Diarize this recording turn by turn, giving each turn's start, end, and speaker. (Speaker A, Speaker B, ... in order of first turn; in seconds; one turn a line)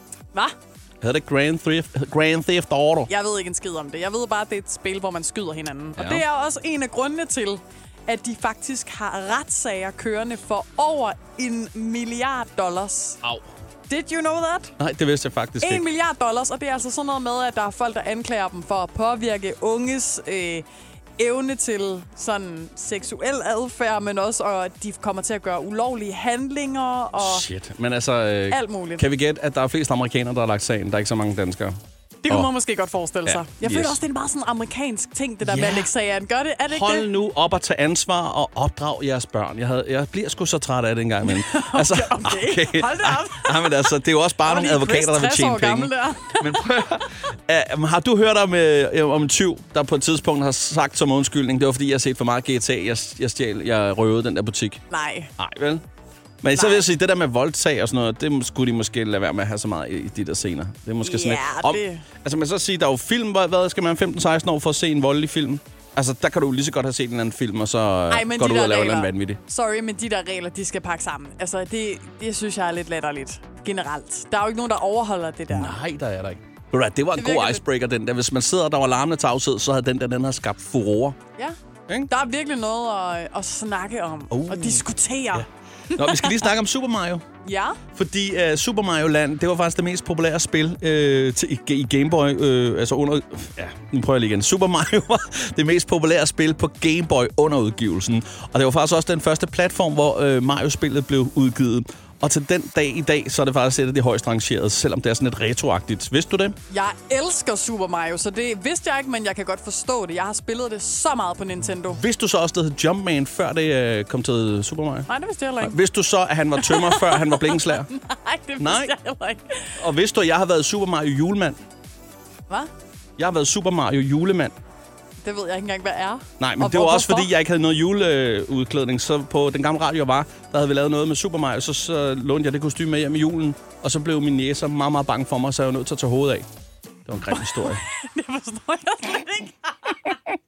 Speaker A: 1.0-3.1
Speaker B: 3.1-13.2
Speaker A: 6.0-6.2
Speaker B: 13.9-14.8
Speaker A: 14.8-15.9
Speaker B: 15.6-20.7
Speaker B: 21.2-27.4
Speaker A: 27.2-31.7
Speaker B: 28.5-29.1
Speaker B: 32.2-37.1
Speaker A: 33.2-34.0
Speaker A: 35.4-35.9
Speaker A: 36.7-54.8
Speaker B: 41.2-46.9
Speaker B: 54.9-55.3
Speaker A: 55.4-55.8
Speaker A: 56.4-69.4
Speaker B: 56.5-56.9
Speaker B: 61.0-62.1
Speaker B: 68.1-75.8
Speaker A: 75.5-81.2
Speaker B: 77.2-77.6
Speaker B: 82.1-86.4
Speaker A: 84.3-87.2
Speaker B: 87.4-87.8
Speaker A: 87.9-106.6
Speaker B: 106.7-112.0
Speaker A: 111.9-115.1
Speaker B: 115.1-115.8
Speaker A: 115.6-117.9
Speaker B: 116.6-119.8
Speaker A: 118.6-119.0
Speaker A: 119.8-121.6
Speaker A: 123.2-124.5
Speaker B: 125.2-127.3
Speaker A: 126.4-136.5
Speaker A: 137.1-137.8
Speaker B: 137.3-140.2